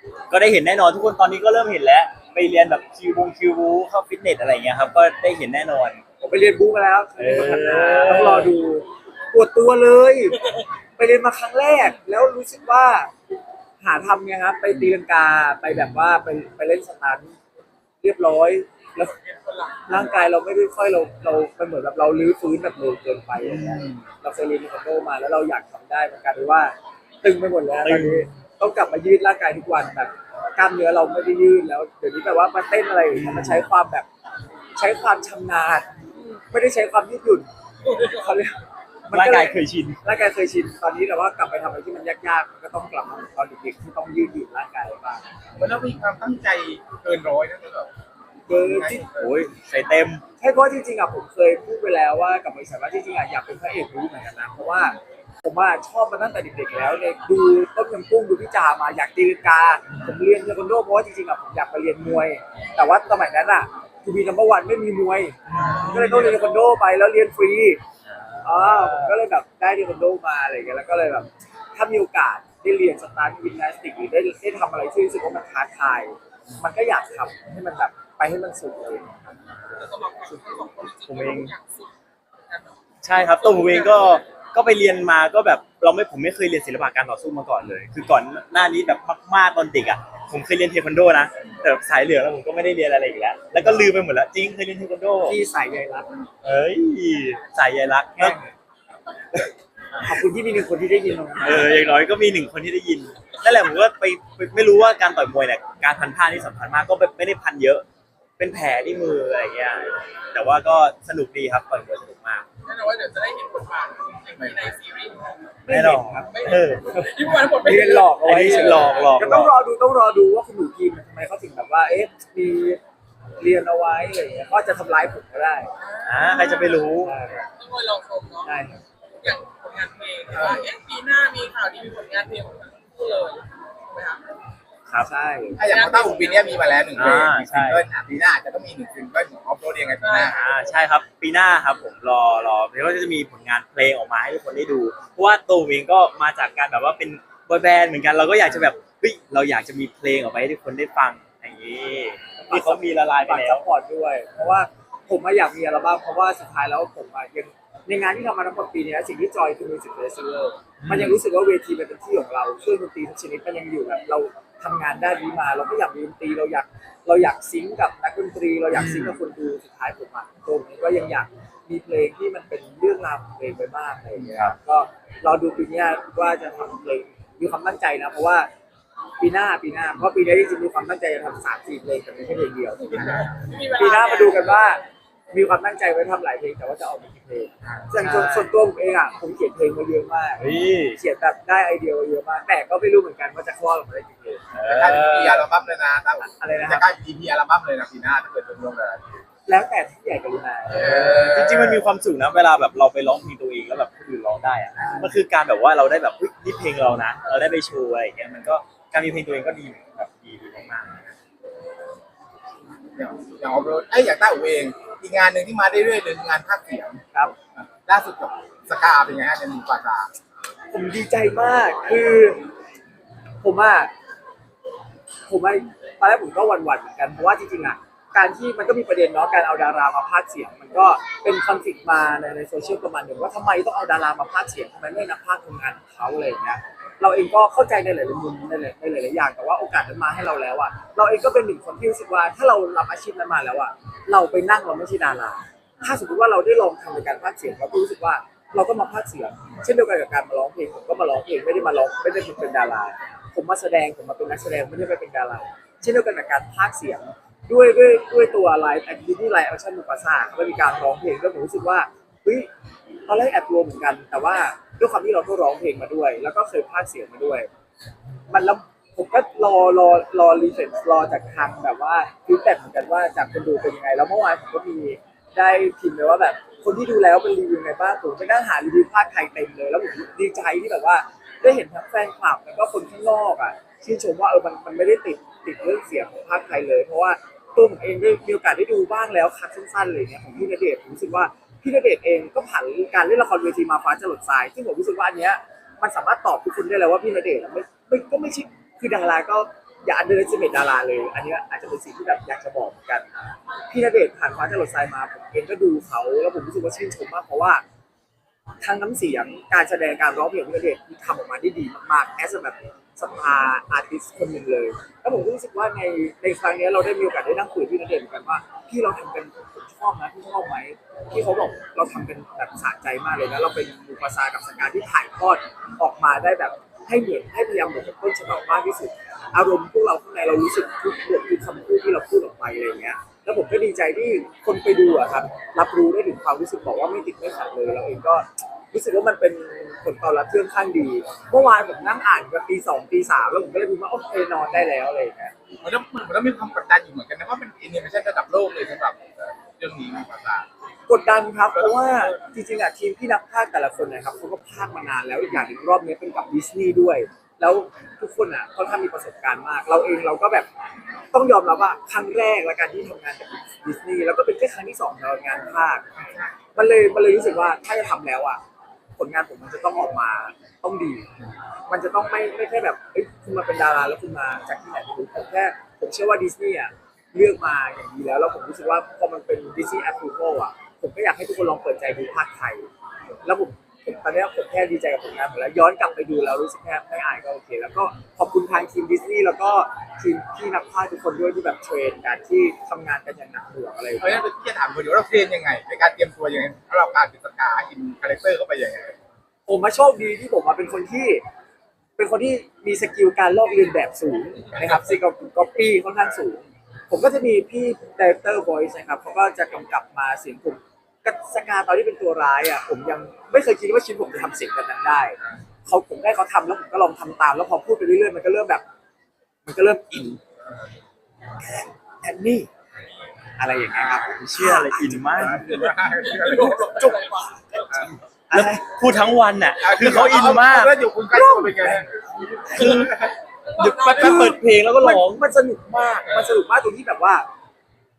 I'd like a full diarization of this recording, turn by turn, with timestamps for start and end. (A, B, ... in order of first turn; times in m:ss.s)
0:00.3-0:06.0 A
0:06.2-0:10.4 B
0:07.2-0:08.6 A
0:11.0-0:13.1 B
0:13.8-0:17.4 B
0:18.0-0:19.1 B
0:19.0-0:20.0 C
0:19.9-0:34.1 B
0:23.4-0:24.1 A
0:27.8-0:28.3 A
0:33.1-0:33.7 A
0:34.8-0:35.9 B
0:36.5-0:37.5 B
0:37.8-0:38.4 C
0:38.0-0:45.2 B
0:39.1-0:40.0 A
0:45.6-0:47.9 D
0:48.5-0:49.0 B
0:48.5-0:49.3 D
0:49.1-0:50.2 A
0:50.4-1:07.8 B
0:59.9-1:00.2 A
1:05.5-1:06.4 A
1:08.1-1:09.2 A
1:08.4-1:19.3 B
1:19.8-1:21.9 C
1:21.1-1:21.5 A
1:22.5-1:22.8 C
1:23.0-1:35.4 A
1:23.4-1:24.2 C
1:35.2-1:36.1 B
1:36.4-1:38.4 A
1:38.2-1:38.5 B
1:40.0-1:41.8 B
1:41.4-1:47.9 A
1:48.4-1:52.5 A
1:52.6-1:55.2 C
1:54.4-1:54.7 D
1:55.6-2:02.8 B
1:55.7-1:56.9 A
1:56.3-1:59.2 C
1:58.2-1:59.5 A
2:03.4-2:05.7 B
2:05.8-2:06.9 C
2:06.0-2:07.2 A
2:07.0-2:07.5 B
2:07.6-2:08.5 C
2:08.4-2:08.8 B
2:09.2-2:14.2 C
2:10.3-2:10.6 D
2:15.0-2:15.6 B
2:15.6-2:20.4 D
2:15.6-2:16.9 C
2:17.0-2:17.8 A
2:20.0-2:20.4 C
2:20.2-2:33.7 A
2:32.4-2:58.5 B
2:40.8-2:41.2 A
2:48.7-2:49.2 A
2:54.2-2:54.6 A
2:59.2-3:03.1 B
3:02.8-3:04.7 C
3:02.9-3:03.4 D
3:03.8-3:14.4 B
3:07.9-3:08.5 A
3:10.4-3:11.0 A
3:14.5-3:15.5 A
3:14.6-3:19.2 D
3:16.2-3:16.8 B
3:19.5-3:21.7 B
3:20.7-3:21.8 D
3:20.8-3:31.1 A
3:24.8-3:25.1 B
3:33.0-3:37.0 D
3:37.6-3:40.1 D
3:40.7-3:42.4 B
3:43.4-3:43.9 B
3:45.3-4:22.5 B
4:23.1-4:27.5 B
4:28.3-5:03.1 B
5:03.7-5:07.6 B
5:08.6-5:45.3 B
5:45.6-5:50.5 D
5:50.9-6:00.5 B
5:51.6-5:52.2 D
6:01.1-6:05.8 B
6:05.9-6:06.4 D
6:06.6-6:08.4 B
6:09.0-6:11.1 B
6:11.7-6:22.7 B
6:23.2-6:34.2 B
6:34.0-6:39.0 D
6:39.5-6:41.2 B
6:42.0-6:58.6 B
6:59.4-7:00.2 B
7:01.4-7:02.5 B
7:03.4-7:05.5 B
7:04.2-7:05.4 A
7:05.2-7:06.6 D
7:05.8-7:07.4 C
7:07.7-7:10.8 A
7:08.3-7:08.6 B
7:09.6-7:11.9 D
7:11.1-7:11.9 B
7:12.5-7:13.0 A
7:12.5-7:13.1 D
7:13.4-7:14.4 C
7:13.6-7:15.2 A
7:14.0-7:17.3 B